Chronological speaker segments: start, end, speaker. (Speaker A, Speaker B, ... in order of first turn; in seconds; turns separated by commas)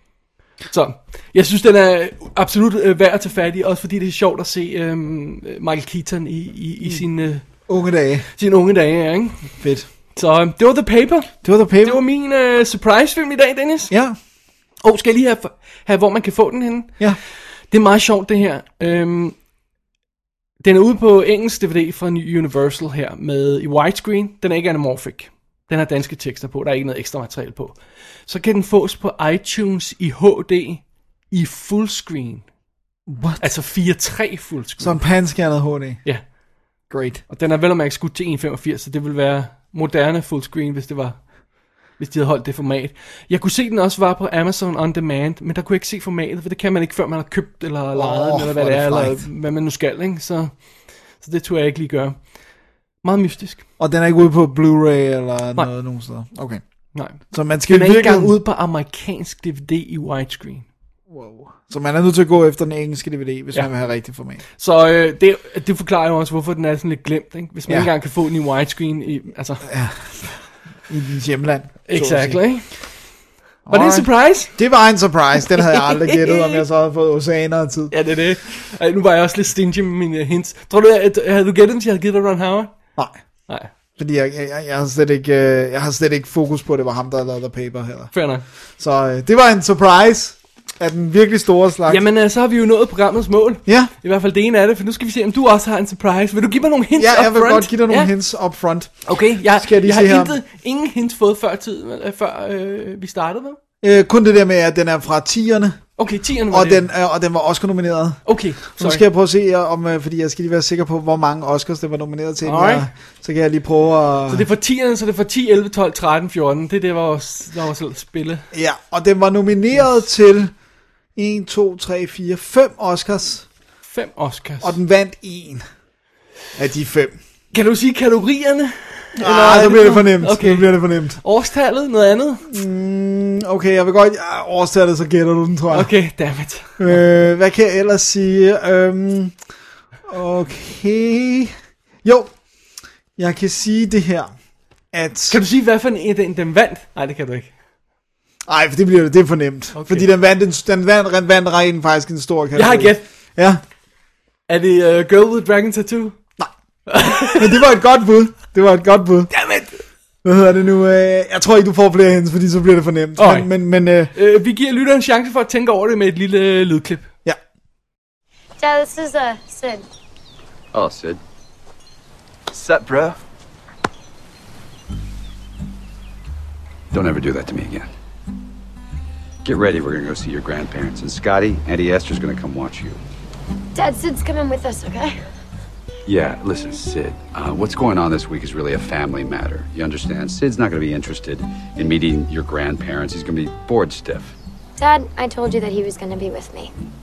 Speaker A: 0.7-7.5, Speaker B: 7.7-8.2, Speaker A: 8.4-9.5, Speaker B: 9.6-9.9, Speaker A: 10.1-13.9, Speaker B: 11.4-12.0, Speaker B: 13.9-14.2, Speaker A: 14.8-17.0, Speaker A: 17.7-19.4, Speaker A: 20.6-32.4, Speaker B: 33.1-33.4, Speaker A: 33.4-35.0, Speaker B: 34.8-36.0, Speaker B: 36.9-37.2, Speaker A: 37.3-41.2, Speaker A: 42.0-50.5, Speaker B: 47.9-49.2, Speaker A: 51.2-52.2, Speaker A: 53.0-53.6, Speaker B: 53.8-56.6, Speaker A: 56.9-60.6, Speaker B: 57.3-58.3, Speaker B: 61.1-64.4, Speaker A: 64.5-69.7, Speaker B: 69.7-72.5, Speaker A: 71.9-72.7, Speaker B: 73.7-77.9, Speaker A: 73.7-74.5, Speaker A: 75.6-76.6, Speaker A: 77.9-82.7, Speaker B: 84.0-88.1, Speaker A: 88.1-88.4, Speaker B: 88.8-92.0, Speaker A: 91.9-98.1, Speaker B: 93.7-93.9, Speaker B: 97.0-99.0, Speaker A: 99.0-103.6, Speaker B: 99.5-100.4, Speaker B: 103.8-105.8, Speaker A: 106.0-106.8, Speaker B: 106.5-114.5, Speaker A: 108.2-109.0, Speaker A: 112.4-112.9, Speaker A: 114.3-118.4, Speaker B: 118.5-120.5, Speaker B: 121.2-123.5, Speaker A: 123.8-124.8, Speaker B: 124.6-125.6, Speaker B: 126.6-127.2, Speaker A: 127.5-132.4, Speaker B: 129.2-131.2, Speaker B: 132.5-135.9, Speaker A: 135.7-137.0, Speaker B: 136.8-139.3, Speaker B: 140.1-141.5, Speaker B: 142.0-142.3, Speaker B: 143.2-144.3, Speaker B: 144.9-145.4, Speaker A: 145.3-147.5, Speaker B: 148.5-153.6, Speaker A: 149.7-150.1, Speaker A: 152.5-153.1, Speaker A: 154.5-156.2, Speaker A: 156.9-157.6, Speaker B: 157.2-159.3, Speaker A: 159.3-159.8, Speaker B: 160.2-164.1, Speaker A: 163.2-163.5, Speaker A: 164.1-167.1, Speaker C: 168.6-169.8, Speaker D: 170.7-171.2, Speaker D: 172.6-173.0, Speaker D: 176.9-177.9, Speaker D: 179.4-183.0, Speaker C: 183.8-185.1, Speaker D: 186.1-194.3, Speaker C: 194.8-196.7